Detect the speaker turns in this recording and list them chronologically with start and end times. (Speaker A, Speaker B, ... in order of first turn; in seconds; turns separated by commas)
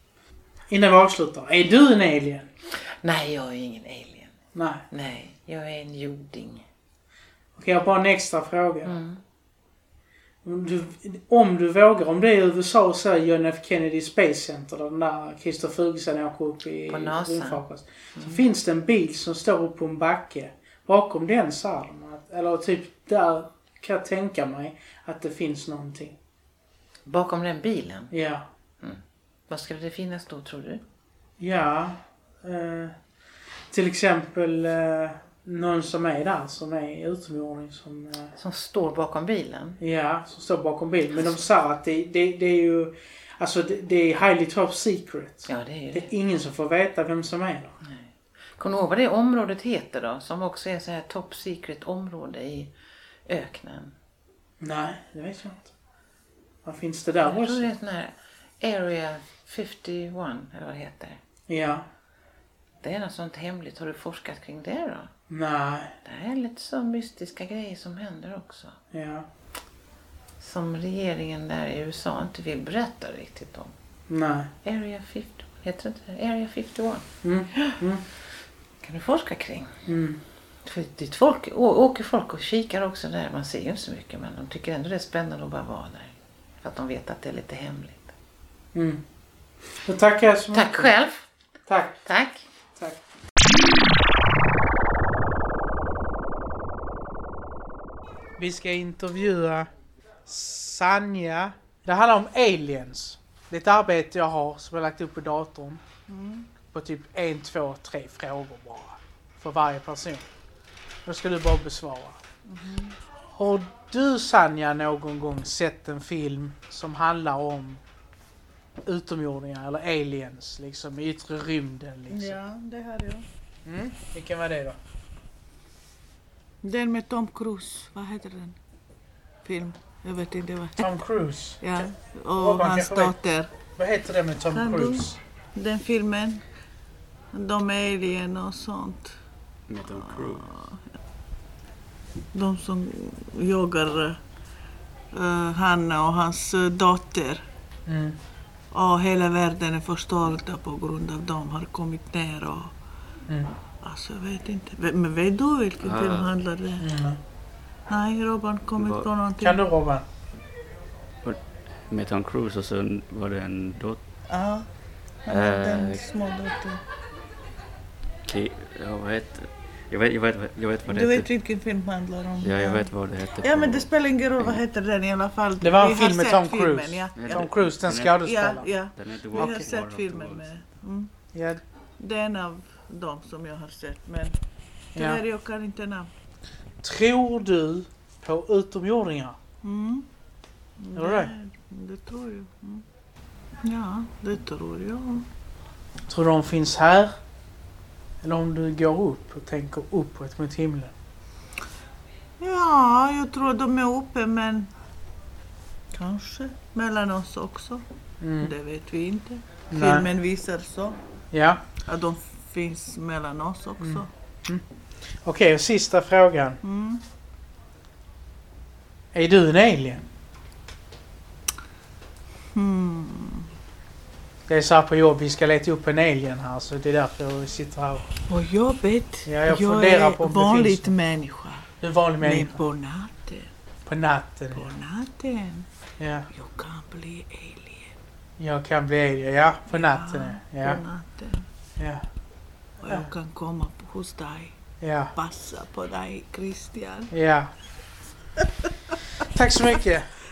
Speaker A: 0.7-2.5, Speaker B: 3.0-4.3, Speaker A: 4.5-4.8, Speaker B: 4.9-6.6, Speaker A: 7.5-8.9, Speaker B: 8.8-9.2, Speaker A: 10.4-26.2, Speaker B: 16.9-17.6, Speaker B: 18.1-18.4, Speaker B: 27.1-28.1, Speaker A: 28.1-28.4, Speaker B: 28.8-30.8, Speaker A: 31.4-32.9, Speaker A: 33.7-38.3, Speaker B: 38.4-39.8, Speaker A: 39.8-47.8, Speaker B: 45.5-46.1, Speaker B: 47.8-52.7, Speaker B: 53.3-53.9, Speaker A: 54.6-55.7, Speaker A: 56.6-57.7, Speaker B: 57.2-61.2, Speaker A: 61.5-61.9, Speaker B: 62.8-65.1, Speaker A: 65.3-65.9, Speaker B: 66.0-68.8, Speaker A: 68.9-69.3, Speaker B: 70.4-73.7, Speaker A: 74.1-74.5, Speaker B: 74.6-77.0, Speaker A: 77.2-78.0, Speaker B: 78.8-79.7, Speaker A: 79.8-80.2, Speaker B: 80.6-88.1, Speaker A: 88.7-89.0, Speaker A: 89.8-90.9, Speaker B: 90.5-91.2, Speaker A: 91.7-92.0, Speaker B: 92.0-92.4, Speaker A: 92.8-93.0, Speaker A: 98.4-99.7, Speaker A: 100.2-105.8, Speaker C: 106.1-106.5, Speaker A: 106.7-110.3, Speaker A: 111.0-112.2, Speaker C: 112.5-113.0, Speaker A: 113.3-117.8, Speaker A: 118.8-122.4, Speaker C: 122.1-123.2, Speaker A: 123.7-124.8, Speaker C: 126.6-128.6, Speaker C: 129.4-131.1, Speaker A: 130.8-131.6, Speaker C: 131.6-133.5, Speaker A: 132.4-133.1, Speaker A: 133.7-135.2, Speaker C: 134.4-136.4, Speaker C: 137.3-139.1, Speaker D: 139.7-140.4, Speaker C: 139.9-140.8, Speaker C: 142.3-144.2, Speaker C: 145.1-147.4, Speaker A: 147.9-148.2, Speaker C: 148.7-152.7, Speaker A: 153.3-153.5, Speaker C: 153.8-156.9, Speaker D: 155.8-156.3, Speaker A: 156.8-157.2, Speaker C: 157.9-159.7, Speaker D: 158.8-159.1, Speaker A: 159.4-160.1, Speaker D: 161.2-164.0, Speaker C: 164.3-164.7, Speaker C: 165.2-166.8, Speaker D: 165.3-166.0, Speaker D: 168.2-171.3, Speaker C: 170.8-177.5, Speaker D: 172.4-174.6, Speaker A: 175.6-178.7, Speaker D: 177.2-178.2, Speaker C: 178.2-181.1, Speaker D: 179.0-180.4, Speaker A: 179.3-179.7, Speaker A: 181.3-181.6, Speaker C: 182.0-184.3, Speaker A: 184.9-185.2, Speaker C: 184.9-186.1, Speaker A: 186.8-189.4, Speaker C: 189.6-190.1, Speaker C: 190.8-192.8, Speaker A: 190.9-191.3, Speaker C: 193.6-195.2, Speaker A: 196.1-197.2, Speaker A: 198.2-200.9, Speaker C: 202.4-204.7, Speaker C: 205.9-207.8, Speaker A: 208.2-208.5, Speaker C: 208.4-211.0, Speaker A: 209.7-210.1, Speaker A: 211.3-211.6, Speaker C: 211.8-214.1, Speaker A: 213.8-214.6, Speaker A: 215.2-216.6, Speaker C: 216.6-217.0, Speaker A: 219.1-220.1, Speaker C: 222.5-223.5, Speaker A: 224.5-228.1, Speaker C: 228.3-231.6, Speaker A: 229.2-230.9, Speaker A: 231.8-232.6, Speaker C: 232.2-233.5, Speaker A: 233.8-234.6, Speaker C: 234.5-235.7, Speaker A: 236.0-236.3, Speaker C: 236.3-237.9, Speaker A: 238.4-240.8, Speaker C: 239.7-241.4, Speaker A: 241.8-242.0, Speaker C: 242.8-244.5, Speaker A: 244.8-245.1, Speaker C: 245.1-247.1, Speaker A: 247.1-247.5, Speaker A: 249.2-250.1